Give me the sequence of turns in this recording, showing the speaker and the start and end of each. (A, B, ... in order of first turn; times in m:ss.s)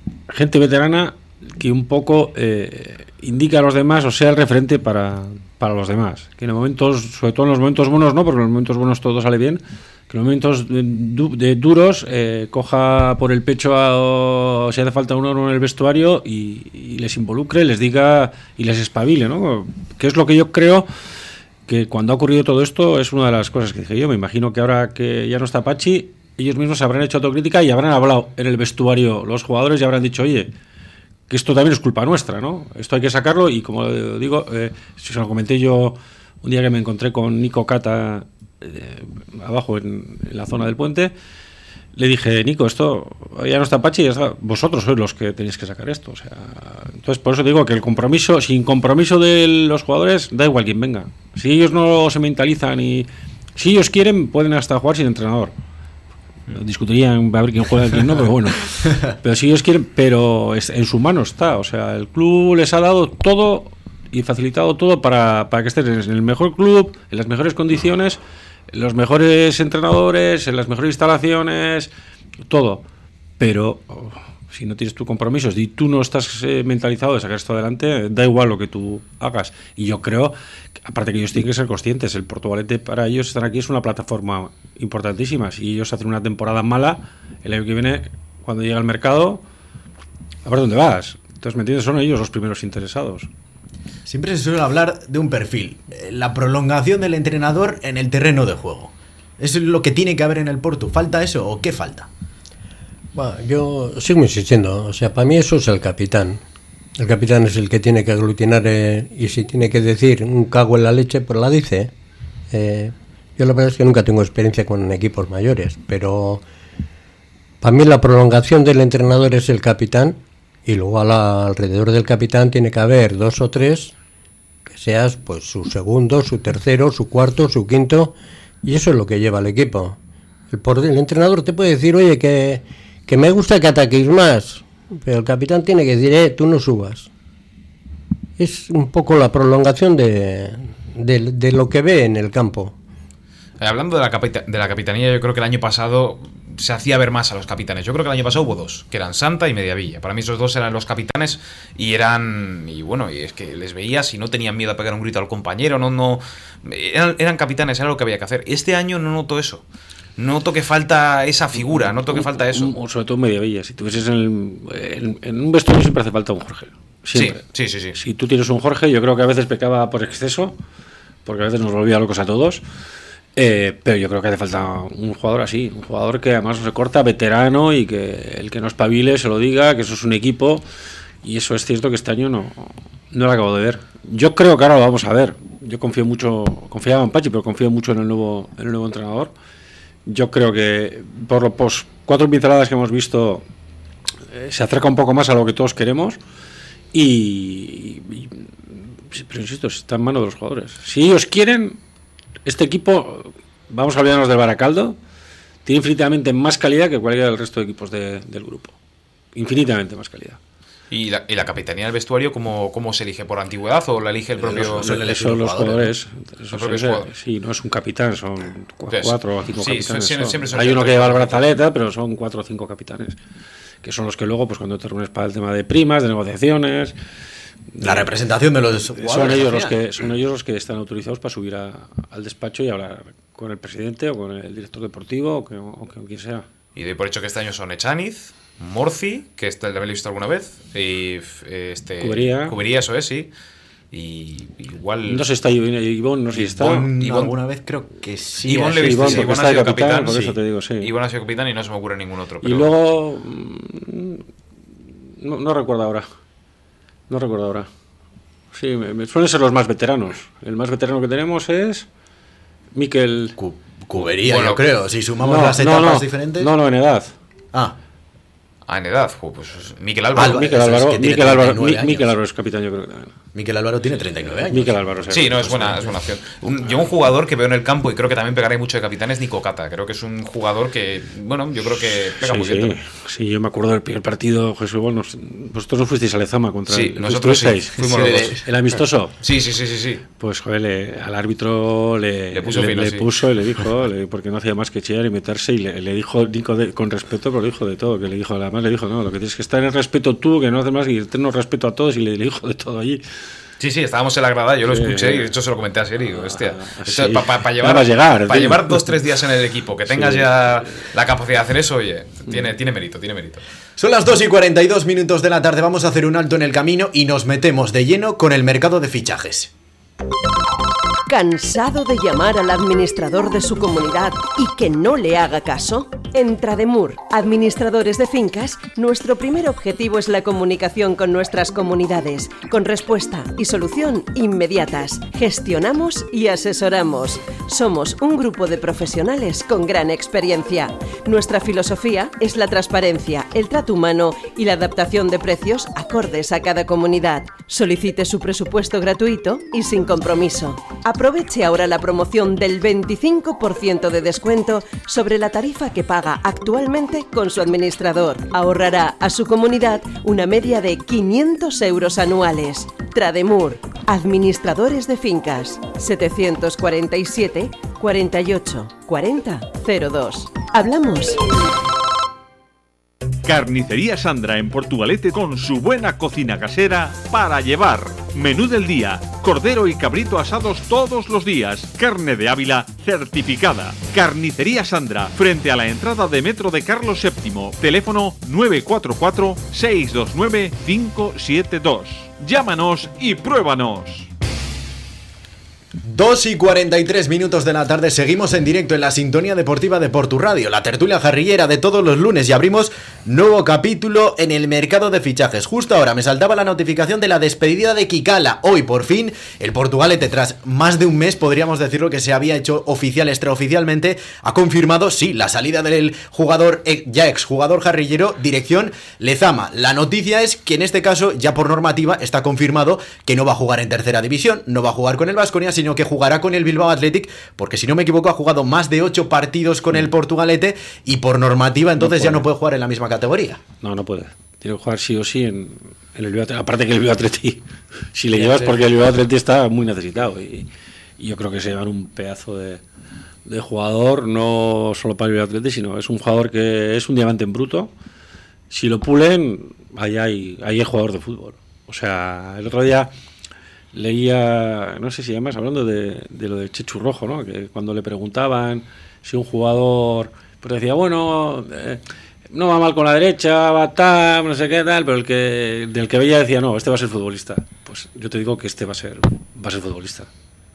0:00.3-0:20.9 A
0:21.7-0:30.5 A
0:31.3-0:41.1 A
0:42.0-0:55.5 A
0:56.5-1:08.2 A
1:08.7-1:11.9 A
1:12.4-1:12.8 A
1:13.4-1:29.4 A
1:30.4-1:33.3 A
1:34.1-1:42.1 B
1:43.1-1:46.4 C
1:47.0-1:51.9 C
1:52.5-1:56.4 C
1:57.6-2:03.9 C
2:04.7-2:10.0 C
2:10.5-2:17.1 C
2:18.4-2:22.8 C
2:23.6-2:39.6 D
2:40.2-2:42.7 D
2:41.8-2:47.4 A
2:47.1-2:48.0 D
2:47.9-2:50.6 A
2:51.2-2:52.6 A
2:53.4-3:00.6 A
3:01.2-3:09.3 A
3:10.1-3:13.5 A
3:14.3-3:16.2 A
3:16.9-3:21.8 A
3:22.4-3:25.0 A
3:25.6-3:28.8 A
3:29.4-3:30.4 A
3:30.9-3:35.0 D
3:34.4-3:35.9 B
3:34.8-3:43.2 A
3:36.5-3:37.1 D
3:38.9-3:41.4 D
3:43.8-3:47.0 A
3:47.7-3:48.1 A
3:47.8-3:49.8 B
3:49.0-3:56.5 A
3:56.8-4:03.3 D
4:02.0-4:02.6 A
4:03.9-4:05.2 D
4:05.1-4:06.9 A
4:06.4-4:09.3 B
4:07.0-4:07.4 D
4:08.5-4:10.2 D
4:08.5-4:10.9 A
4:10.1-4:10.4 B
4:10.8-4:12.7 D
4:12.4-4:14.2 A
4:15.2-4:16.1 A
4:17.1-4:17.7 A
4:18.5-4:21.9 A
4:22.8-4:23.4 A
4:23.4-4:26.5 B
4:24.2-4:24.6 D
4:25.2-4:27.2 A
4:28.7-4:30.4 D
4:30.2-4:32.1 B
4:30.2-4:33.1 A
4:33.4-4:35.2 B
4:34.2-4:35.9 A
4:35.1-4:42.8 D
4:42.2-4:47.8 A
4:46.7-4:48.4 D
4:47.8-4:48.4 B
4:48.4-4:49.2 A
4:49.2-4:50.0 D
4:50.2-5:03.0 A
4:52.3-4:53.1 D
5:03.6-5:13.4 D
5:04.6-5:05.3 A
5:06.0-5:08.9 A
5:09.9-5:10.9 A
5:13.8-5:19.5 B
5:21.1-6:11.2 E
6:13.2-6:34.1 F
6:35.8-7:13.4 B
7:11.8-7:12.3 A
7:13.6-7:22.6 A
7:18.1-7:18.6 B
7:23.2-7:27.7 A
7:28.5-7:32.9 A
7:33.7-7:50.1 A